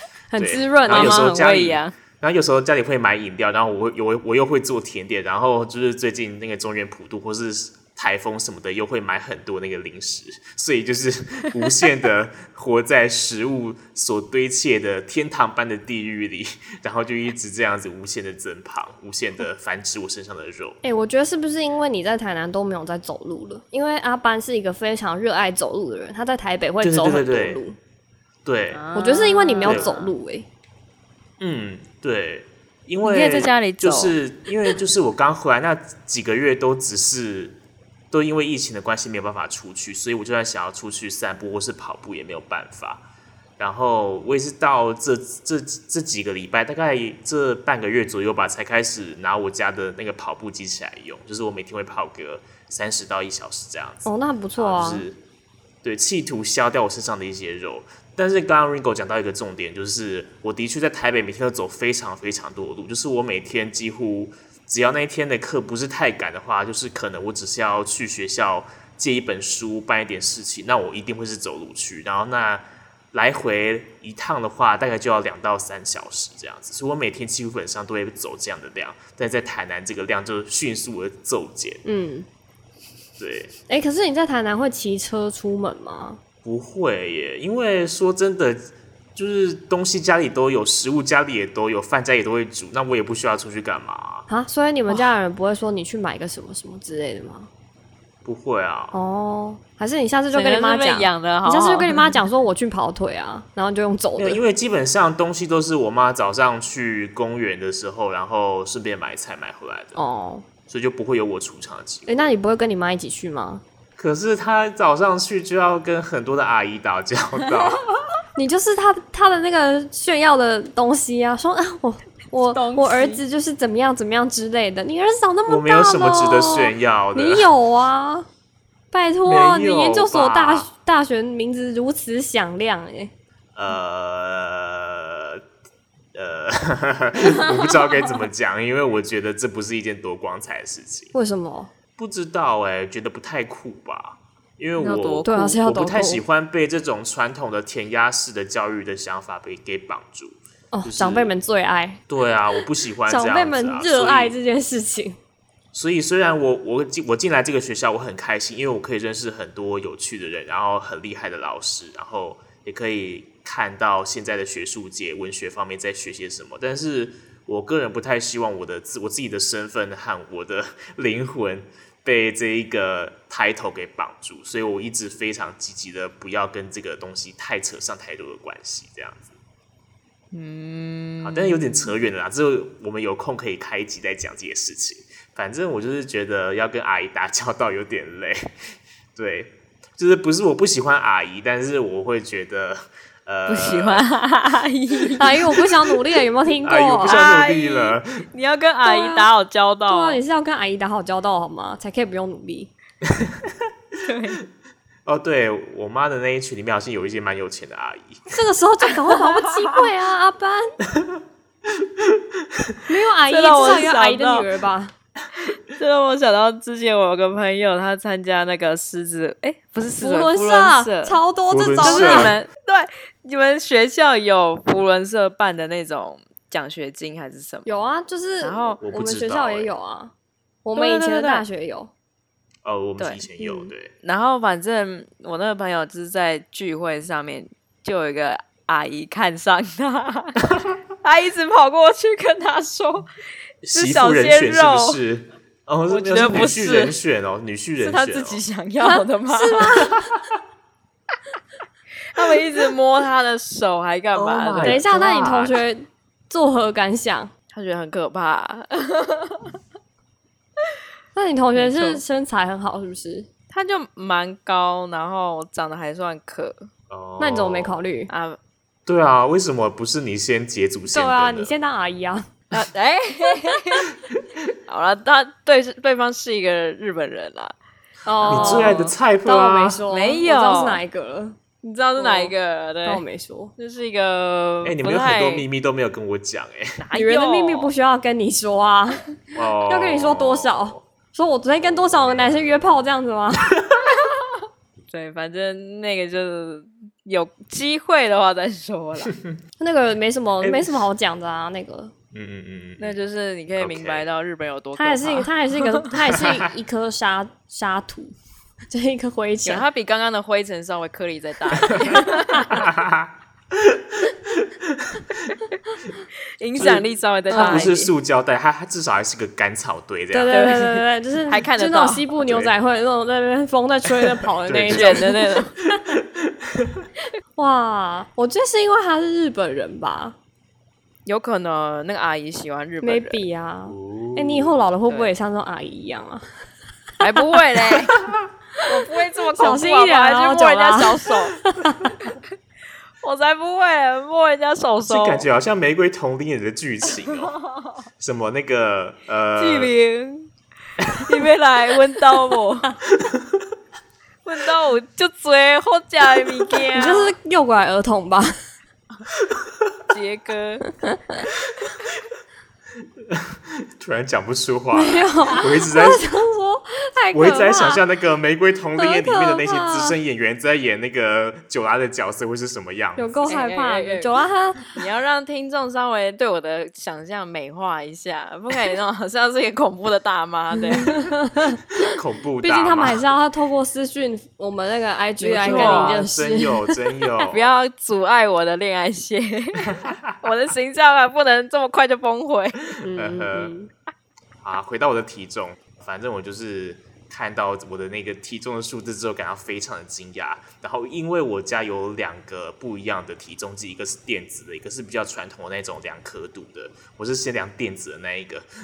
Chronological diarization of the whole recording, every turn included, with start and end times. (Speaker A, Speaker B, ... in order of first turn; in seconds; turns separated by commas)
Speaker A: 0.3-1.3, Speaker B: 0.4-20.8, Speaker C: 0.9-1.9, Speaker A: 20.8-27.8, Speaker B: 26.8-27.6, Speaker B: 28.4-28.9, Speaker C: 28.7-30.1, Speaker A: 28.9-30.5, Speaker B: 29.6-30.0, Speaker B: 31.4-37.6, Speaker C: 33.0-34.7, Speaker B: 38.1-43.0, Speaker B: 43.6-55.2, Speaker A: 54.1-55.1, Speaker B: 55.8-81.8, Speaker A: 81.8-82.3, Speaker B: 83.2-83.5, Speaker A: 83.7-86.2, Speaker B: 86.4-94.3, Speaker A: 94.3-97.5, Speaker B: 98.2-99.0, Speaker A: 98.9-104.4, Speaker C: 100.3-102.2, Speaker B: 104.2-110.0, Speaker A: 110.0-110.5, Speaker B: 110.7-112.3, Speaker A: 112.1-113.6, Speaker B: 114.0-117.8, Speaker A: 118.3-128.3, Speaker C: 122.5-123.2, Speaker B: 125.5-127.5, Speaker A: 128.9-133.1, Speaker B: 129.3-130.7, Speaker B: 133.6-135.4, Speaker B: 136.1-141.1, Speaker A: 141.1-141.7, Speaker B: 142.0-151.3, Speaker C: 144.8-145.6, Speaker A: 145.3-146.2, Speaker A: 150.7-152.0, Speaker B: 152.1-154.4, Speaker A: 153.1-155.2, Speaker B: 155.7-179.4, Speaker C: 180.3-181.9, Speaker B: 181.2-188.6, Speaker B: 189.2-194.0, Speaker C: 193.5-195.4, Speaker A: 195.2-197.2, Speaker B: 196.6-198.2, Speaker C: 197.1-200.2, Speaker A: 198.8-199.3, Speaker A: 199.9-202.7, Speaker B: 203.1-203.5, Speaker C: 204.1-204.4, Speaker B: 205.1-208.3, Speaker A: 208.3-210.8, Speaker C: 209.2-209.8, Speaker B: 210.9-211.2, Speaker B: 211.8-212.8, Speaker A: 212.9-214.9, Speaker C: 213.3-214.5, Speaker C: 215.4-221.2, Speaker A: 220.0-222.3, Speaker B: 221.5-222.3, Speaker C: 221.8-227.7, Speaker A: 227.7-230.1, Speaker C: 228.4-228.8, Speaker B: 228.8-229.7, Speaker A: 230.7-231.9, Speaker C: 230.8-231.4, Speaker B: 232.7-233.9, Speaker A: 233.4-233.7, Speaker C: 234.0-243.1, Speaker B: 243.6-248.4, Speaker C: 243.7-245.0, Speaker C: 245.9-246.9, Speaker C: 247.8-249.9, Speaker A: 248.8-250.1, Speaker C: 252.1-255.0, Speaker B: 254.2-255.6, Speaker A: 254.6-257.3, Speaker C: 257.5-259.6, Speaker A: 261.1-263.3, Speaker C: 261.6-262.0, Speaker C: 263.5-266.7, Speaker B: 266.9-267.8, Speaker A: 267.2-268.1, Speaker C: 268.1-268.4, Speaker B: 268.9-271.5, Speaker A: 270.9-272.3, Speaker C: 272.5-273.9, Speaker C: 274.7-277.6, Speaker A: 278.1-281.4, Speaker C: 278.2-278.9, Speaker B: 278.3-279.8, Speaker C: 279.9-280.8, Speaker C: 281.6-283.0, Speaker A: 282.0-282.3, Speaker A: 282.9-283.5, Speaker C: 283.6-285.5, Speaker B: 284.6-286.8, Speaker C: 286.8-287.7, Speaker A: 286.9-289.0, Speaker B: 289.4-290.8, Speaker A: 289.6-293.6, Speaker B: 291.6-292.9, Speaker C: 294.9-299.1, Speaker A: 299.6-301.9, Speaker B: 300.4-300.8, Speaker B: 302.1-303.0, Speaker C: 302.8-305.9, Speaker B: 303.6-304.1, Speaker A: 304.8-308.1, Speaker B: 306.0-306.4, Speaker A: 308.7-309.6, Speaker C: 309.4-312.7, Speaker B: 312.5-315.3, Speaker C: 316.4-317.9, Speaker B: 316.6-320.4, Speaker A: 317.3-317.7, Speaker A: 320.1-325.9, Speaker C: 320.3-322.1, Speaker B: 322.2-322.5, Speaker B: 324.4-325.1, Speaker C: 324.6-325.6, Speaker B: 325.9-326.9, Speaker A: 327.4-330.2, Speaker C: 331.1-333.2, Speaker A: 332.8-336.2, Speaker B: 333.7-334.7, Speaker C: 337.0-338.1, Speaker A: 338.6-341.9, Speaker C: 338.7-341.4, Speaker C: 343.0-345.3, Speaker B: 344.8-347.4, Speaker B: 348.0-349.7, Speaker C: 349.4-350.3, Speaker B: 350.8-351.1, Speaker C: 350.9-352.8, Speaker B: 353.0-353.3, Speaker C: 354.2-357.1, Speaker A: 356.7-358.4, Speaker B: 359.2-359.7, Speaker C: 359.9-360.6, Speaker A: 360.9-361.2, Speaker B: 363.0-366.0, Speaker A: 364.7-367.8, Speaker B: 367.1-373.2, Speaker A: 368.8-370.0, Speaker A: 373.0-374.8, Speaker C: 373.3-374.1, Speaker C: 374.7-381.0, Speaker A: 380.8-381.9, Speaker B: 381.8-383.0, Speaker A: 382.4-386.8, Speaker C: 385.2-386.0, Speaker B: 385.2-387.5, Speaker C: 387.2-392.6, Speaker B: 389.7-390.1, Speaker A: 392.8-393.7, Speaker B: 392.9-393.5, Speaker B: 394.4-408.5